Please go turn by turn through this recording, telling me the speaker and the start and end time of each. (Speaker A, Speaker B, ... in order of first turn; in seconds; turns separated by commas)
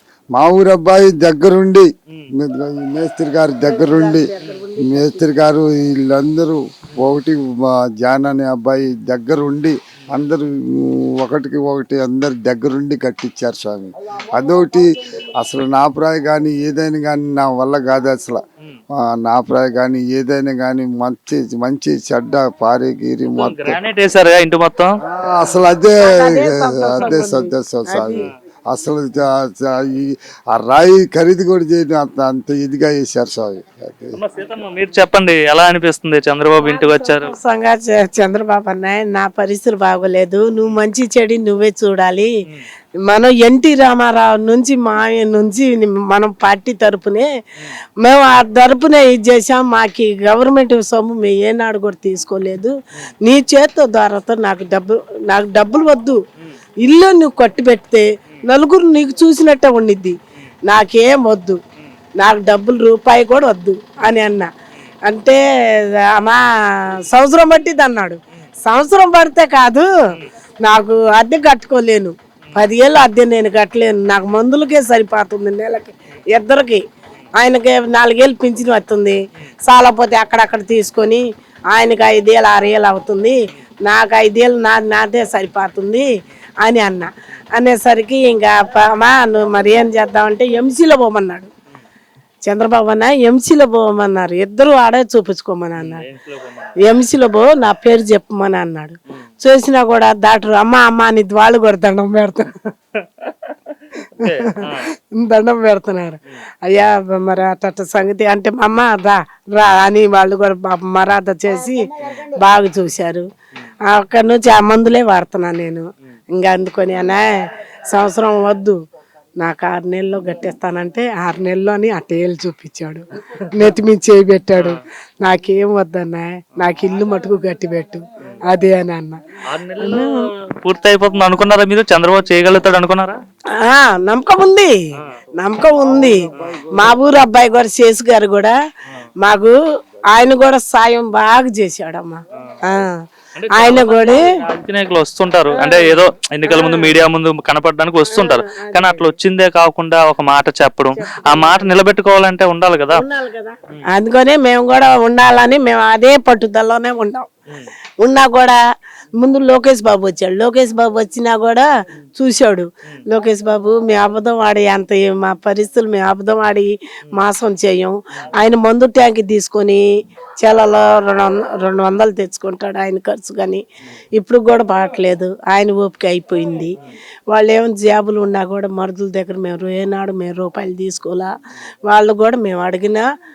Speaker A: 0.3-4.3, Speaker B: 3.6-5.3, Speaker A: 4.9-18.4, Speaker A: 19.0-23.8, Speaker C: 23.3-24.9, Speaker A: 25.1-34.2, Speaker B: 25.3-28.3, Speaker C: 34.2-37.3, Speaker B: 36.5-42.3, Speaker B: 43.1-47.3, Speaker B: 48.0-56.2, Speaker B: 56.8-61.6, Speaker B: 62.2-64.5, Speaker B: 65.0-65.4, Speaker B: 66.1-66.4, Speaker B: 67.1-69.9, Speaker B: 70.6-76.8, Speaker B: 77.4-86.1, Speaker B: 86.6-91.5, Speaker B: 92.5-96.1, Speaker C: 95.8-96.7, Speaker B: 96.8-102.5, Speaker C: 103.0-103.5, Speaker B: 104.2-113.2, Speaker C: 104.2-104.9, Speaker B: 113.9-117.3, Speaker B: 117.9-118.8, Speaker B: 119.4-129.2, Speaker C: 124.5-124.8, Speaker C: 129.5-133.2, Speaker B: 129.8-130.1, Speaker B: 133.6-134.7, Speaker B: 135.4-138.5, Speaker A: 135.7-137.1, Speaker B: 139.2-139.6, Speaker A: 140.1-140.4, Speaker B: 140.1-143.0, Speaker C: 143.4-153.0, Speaker B: 143.5-144.2, Speaker B: 145.5-147.0, Speaker B: 148.1-149.1, Speaker B: 150.9-151.8, Speaker B: 152.9-157.3, Speaker B: 158.0-158.6, Speaker B: 159.2-169.8, Speaker B: 170.4-173.6, Speaker B: 174.2-176.7, Speaker B: 177.3-181.3, Speaker B: 181.9-183.1